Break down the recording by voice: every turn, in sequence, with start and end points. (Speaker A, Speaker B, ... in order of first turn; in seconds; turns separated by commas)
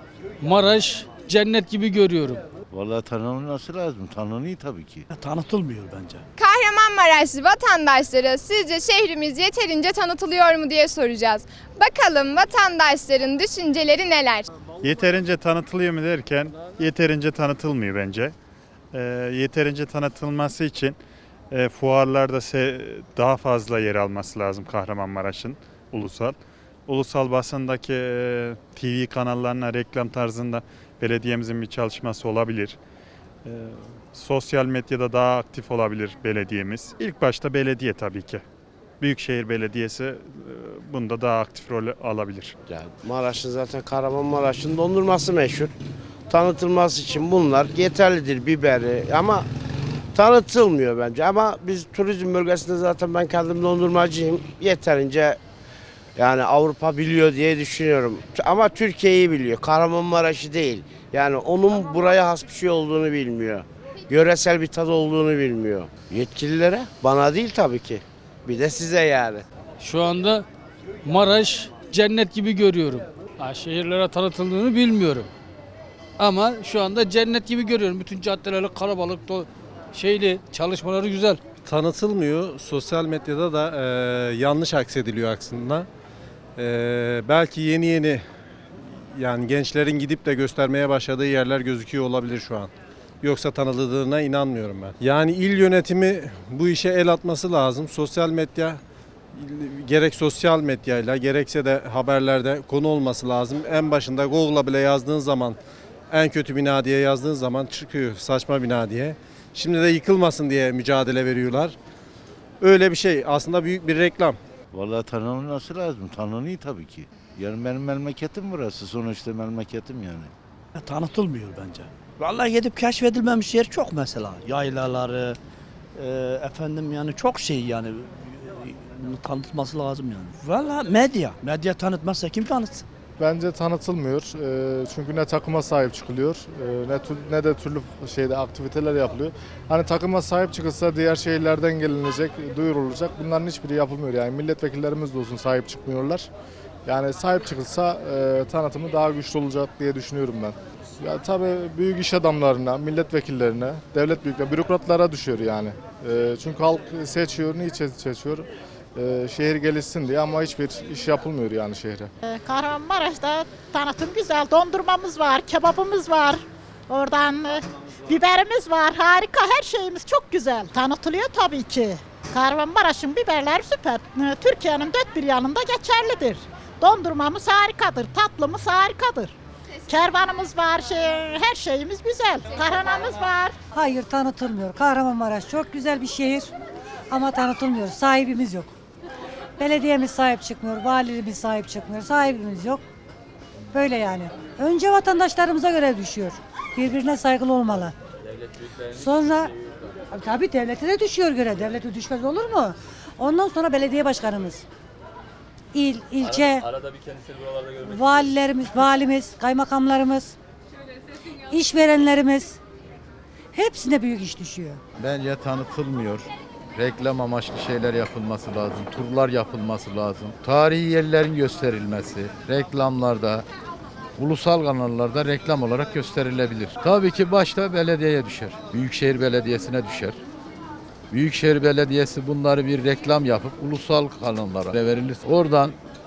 Speaker A: 0.4-2.4, Speaker B: 2.8-5.0, Speaker C: 5.2-6.2, Speaker D: 6.4-14.5, Speaker E: 14.8-18.3, Speaker E: 18.9-21.0, Speaker E: 21.5-26.3, Speaker E: 26.9-32.8, Speaker E: 33.5-38.4, Speaker E: 39.0-42.5, Speaker F: 42.7-45.7, Speaker F: 46.3-49.5, Speaker F: 50.1-55.4, Speaker F: 56.2-69.5, Speaker A: 69.8-70.5, Speaker A: 71.1-75.3, Speaker A: 76.2-81.4, Speaker G: 81.6-85.9, Speaker G: 86.6-88.2, Speaker G: 89.2-92.7, Speaker G: 93.2-98.8, Speaker G: 99.3-105.6, Speaker G: 106.1-111.8, Speaker G: 112.6-114.4, Speaker B: 114.8-120.3, Speaker C: 120.8-125.3, Speaker C: 126.0-132.8, Speaker H: 133.2-146.3, Speaker H: 146.8-162.1, Speaker I: 162.2-179.3, Speaker I: 179.9-183.5, Speaker J: 183.7-186.5, Speaker J: 187.1-188.7, Speaker J: 189.6-192.8, Speaker J: 193.7-197.9, Speaker J: 198.9-199.5, Speaker J: 200.1-204.6, Speaker J: 205.7-206.7, Speaker J: 207.8-210.3, Speaker J: 211.5-212.6, Speaker J: 213.5-214.8, Speaker K: 214.9-223.4, Speaker K: 224.2-230.2, Speaker K: 231.1-235.8